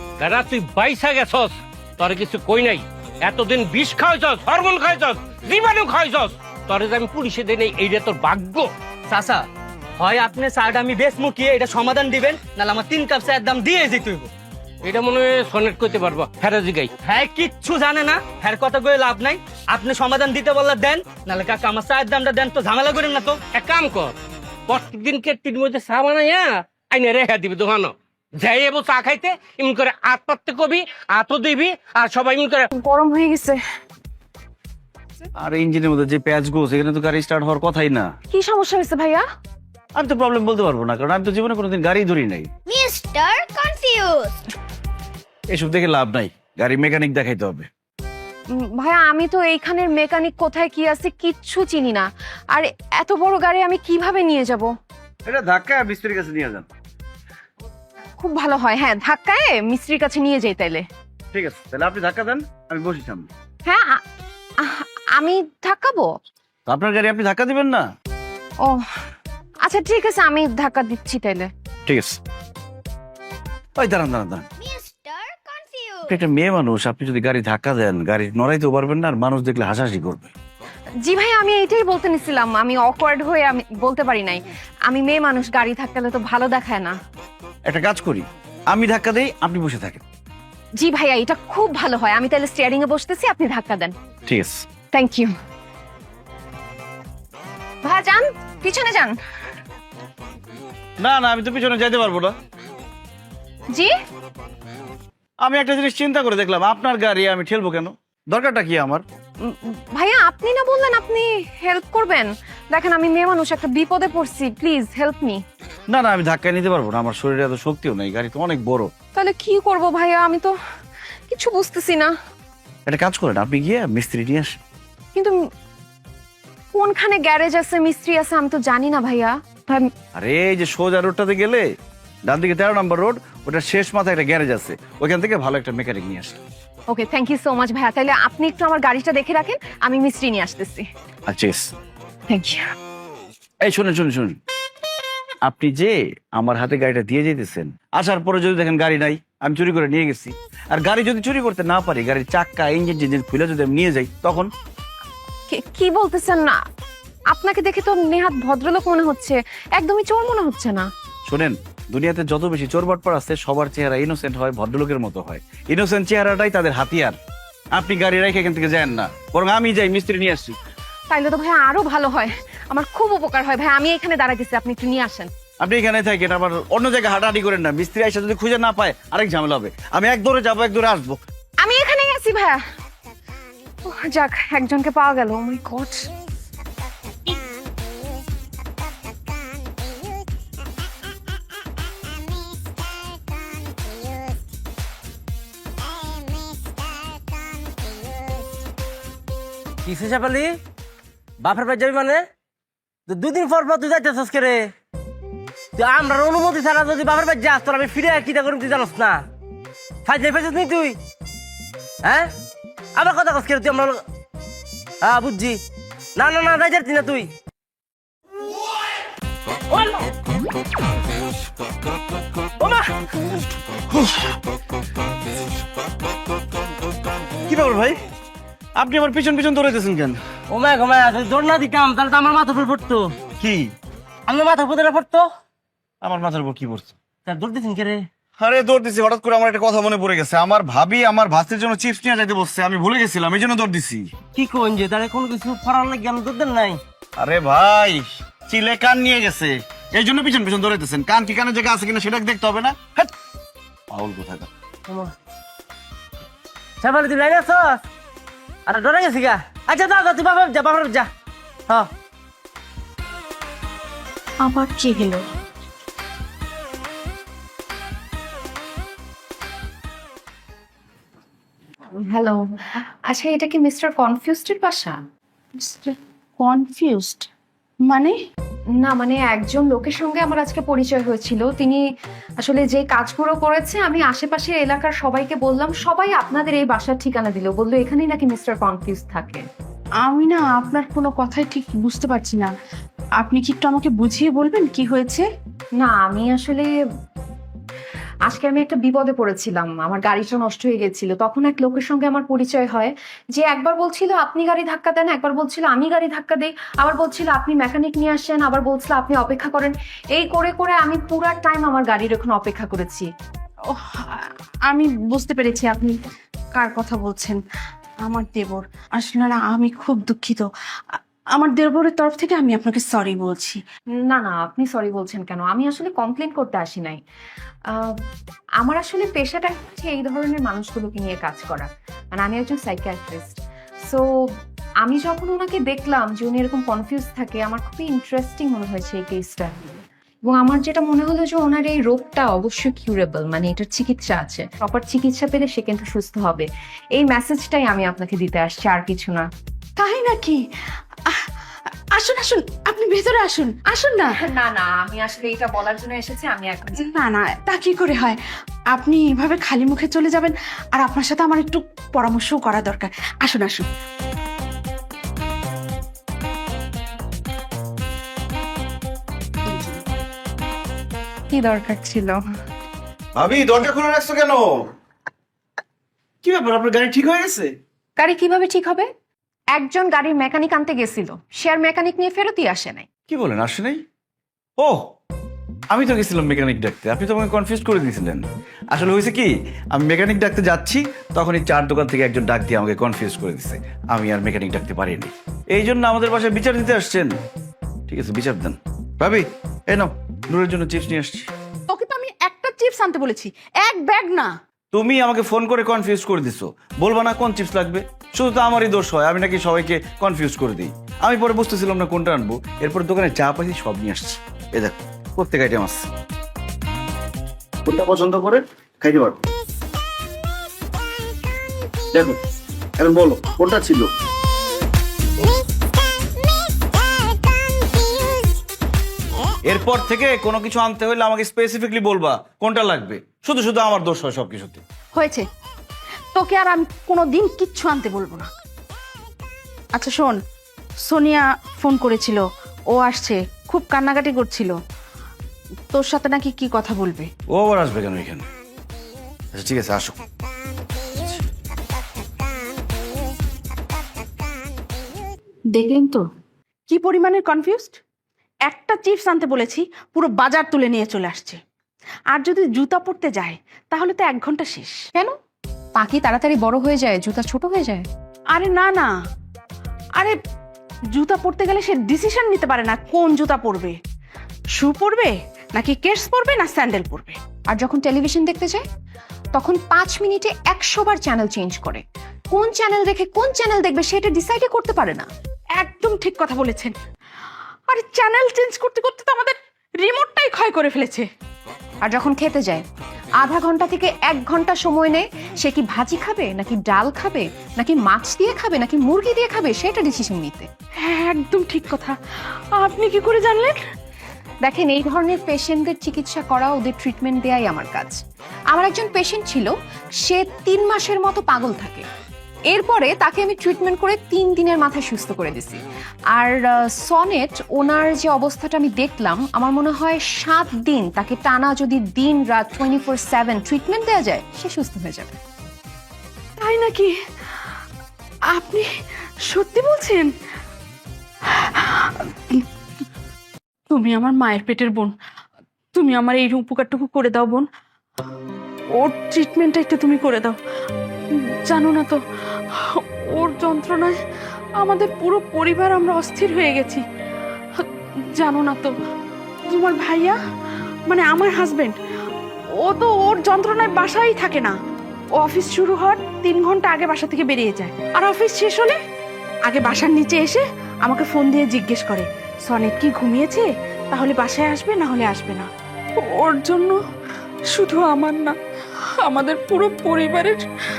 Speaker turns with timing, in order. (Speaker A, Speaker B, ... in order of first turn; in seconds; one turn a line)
Speaker A: 0.2-8.7
Speaker B: 9.1-9.4
Speaker B: 10.0-14.3
Speaker A: 14.8-16.9
Speaker B: 17.1-23.4
Speaker A: 23.5-24.1
Speaker A: 24.7-32.7
Speaker C: 32.7-33.6
Speaker D: 35.4-38.1
Speaker C: 38.3-39.2
Speaker D: 40.0-42.5
Speaker E: 42.7-44.5
Speaker D: 45.5-47.7
Speaker C: 48.5-54.7
Speaker D: 55.3-56.7
Speaker C: 58.2-60.9
Speaker D: 61.3-63.3
Speaker C: 63.7-64.0
Speaker C: 64.6-66.2
Speaker D: 66.7-67.9
Speaker C: 69.6-71.5
Speaker D: 71.9-72.2
Speaker D: 73.8-74.5
Speaker E: 74.6-76.2
Speaker D: 76.1-80.3
Speaker C: 81.1-87.0
Speaker D: 87.7-90.0
Speaker C: 90.8-94.0
Speaker D: 94.3-94.7
Speaker C: 94.9-95.3
Speaker C: 97.8-99.2
Speaker D: 101.0-102.4
Speaker D: 105.4-109.0
Speaker C: 109.4-115.4
Speaker D: 115.9-118.9
Speaker C: 119.2-120.5
Speaker C: 121.3-122.1
Speaker D: 122.9-124.6
Speaker C: 126.7-129.9
Speaker D: 130.2-131.7
Speaker D: 132.3-136.4
Speaker C: 136.9-140.9
Speaker D: 141.3-141.7
Speaker C: 142.3-142.7
Speaker D: 143.6-144.4
Speaker D: 145.4-154.5
Speaker C: 155.5-156.6
Speaker C: 157.3-160.9
Speaker D: 161.3-167.2
Speaker D: 167.7-170.6
Speaker C: 171.1-175.3
Speaker D: 175.6-181.2
Speaker C: 181.6-182.6
Speaker C: 183.8-186.1
Speaker F: 199.8-200.6
Speaker F: 201.4-202.2
Speaker F: 203.1-204.7
Speaker F: 205.8-209.2
Speaker F: 210.1-211.0
Speaker F: 212.1-212.3
Speaker F: 213.0-214.0
Speaker F: 215.0-215.6
Speaker F: 216.2-217.3
Speaker F: 219.7-220.0
Speaker F: 222.6-222.9
Speaker D: 223.9-224.3
Speaker D: 227.5-228.0
Speaker D: 228.8-230.2
Speaker F: 230.5-233.1
Speaker D: 233.4-233.7
Speaker F: 234.3-235.3
Speaker D: 236.0-236.9
Speaker F: 237.3-238.0
Speaker D: 238.4-244.1
Speaker F: 244.4-246.8
Speaker D: 247.2-253.1
Speaker D: 253.9-254.5
Speaker F: 256.8-257.8
Speaker F: 258.7-261.1
Speaker G: 264.4-265.2
Speaker C: 272.0-275.0
Speaker G: 276.4-277.3
Speaker G: 277.9-278.2
Speaker C: 278.8-281.8
Speaker C: 282.4-289.4
Speaker G: 290.0-292.5
Speaker G: 293.2-295.3
Speaker C: 295.8-296.7
Speaker C: 298.3-313.1
Speaker G: 313.7-316.0
Speaker G: 316.6-317.4
Speaker G: 318.0-323.6
Speaker C: 324.1-327.0
Speaker C: 327.7-327.9
Speaker C: 328.6-334.0
Speaker C: 334.8-349.3
Speaker G: 349.8-350.4
Speaker G: 351.1-351.3
Speaker G: 351.9-354.1
Speaker C: 354.1-356.8
Speaker G: 356.8-358.2
Speaker G: 358.7-363.7
Speaker G: 369.5-369.7
Speaker C: 371.3-372.2
Speaker D: 373.1-374.7
Speaker D: 376.2-377.5
Speaker C: 378.0-378.9
Speaker C: 379.6-382.9
Speaker D: 383.1-383.8
Speaker D: 384.6-384.9
Speaker D: 385.7-397.2
Speaker D: 397.9-401.3
Speaker G: 401.7-404.3
Speaker D: 404.7-415.9
Speaker D: 417.7-419.2
Speaker D: 422.8-423.9
Speaker D: 429.5-434.6
Speaker G: 435.0-435.3
Speaker G: 436.1-438.3
Speaker G: 439.8-440.2
Speaker G: 440.9-444.6
Speaker G: 445.7-447.1
Speaker D: 447.3-448.3
Speaker D: 449.3-450.0
Speaker G: 455.5-456.0
Speaker G: 456.7-457.8
Speaker G: 458.5-461.4
Speaker G: 462.1-464.8
Speaker C: 465.8-467.9
Speaker G: 468.3-468.9
Speaker G: 470.9-473.8
Speaker G: 474.6-477.2
Speaker C: 477.5-478.6
Speaker C: 479.3-485.1
Speaker G: 485.6-486.8
Speaker G: 487.7-491.1
Speaker C: 491.8-492.6
Speaker C: 493.2-500.5
Speaker G: 500.8-502.0
Speaker G: 502.6-503.6
Speaker C: 504.4-511.9
Speaker C: 512.5-515.6
Speaker C: 516.1-525.1
Speaker G: 526.4-526.9
Speaker G: 528.3-528.7
Speaker G: 529.3-530.1
Speaker G: 531.3-532.4
Speaker G: 533.7-534.9
Speaker G: 535.7-537.5
Speaker G: 538.8-540.4
Speaker G: 541.5-542.0
Speaker G: 542.5-544.0
Speaker G: 544.6-546.8
Speaker G: 547.6-548.7
Speaker G: 549.5-550.2
Speaker G: 550.9-551.8
Speaker G: 552.6-554.6
Speaker G: 555.2-558.8
Speaker G: 559.5-566.8
Speaker G: 567.5-568.4
Speaker G: 569.0-570.4